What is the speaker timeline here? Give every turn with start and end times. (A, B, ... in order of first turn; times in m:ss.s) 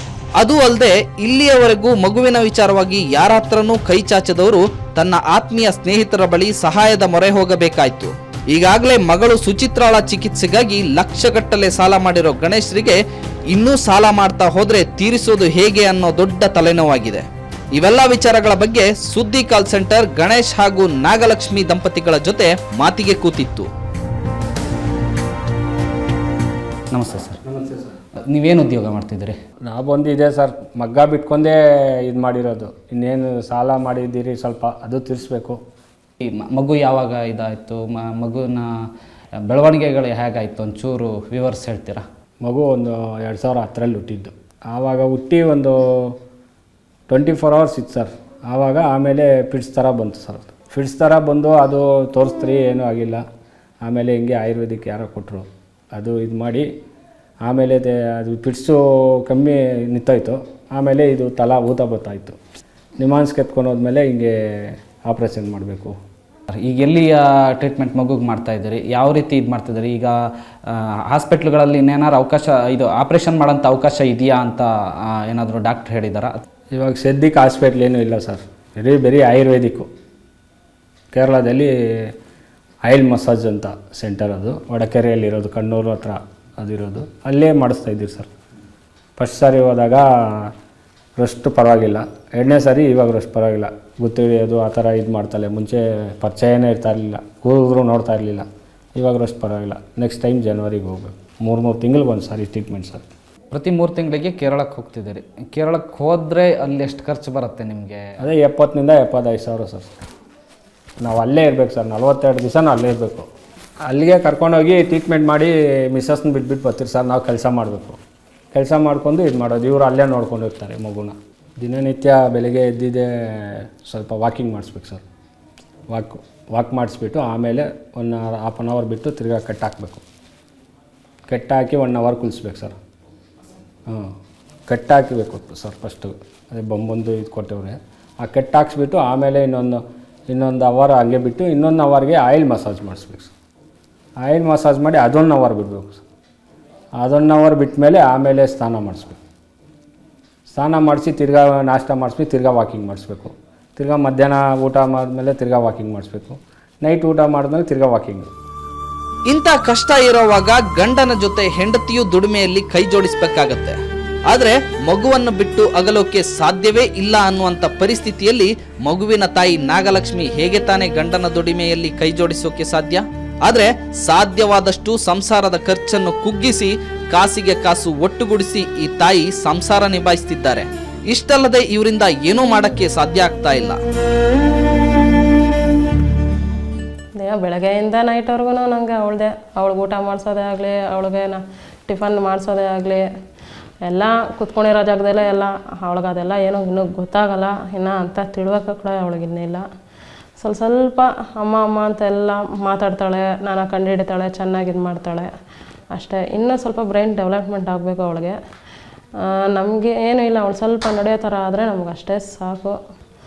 0:00.4-0:13.0 A
0:13.5-0:23.7 A
0:26.9-0:27.4 B
0:27.4-0:27.9 C
0:28.3-0:29.4 B
0:29.7-0:35.6 C
0:36.2-0:38.8 B
0:39.5-0:42.0 B
0:42.4-0:46.2 C
0:47.1-0:53.2 C
0:53.8-0:56.7 C
0:57.4-1:02.4 C
1:03.0-1:06.0 C
1:06.5-1:16.4 B
1:16.7-1:19.9 C
1:21.1-1:22.2 C
1:22.8-1:28.3 C
1:29.2-1:30.5 C
1:31.2-1:43.1 C
1:43.5-1:48.1 B
1:48.2-1:49.9 C
1:51.0-1:53.3 C
1:53.9-1:58.0 C
1:58.5-2:05.0 C
2:05.9-2:10.0 C
2:11.3-2:12.8 C
2:13.9-2:14.2 C
2:14.7-2:23.3 C
2:24.2-2:26.0 C
2:27.0-2:29.2 C
2:30.5-2:38.3 C
2:39.3-3:03.8 A
3:07.2-3:13.1 D
3:13.8-3:19.7 D
3:20.4-3:25.3 D
3:25.9-3:28.4 D
3:29.2-3:32.8 D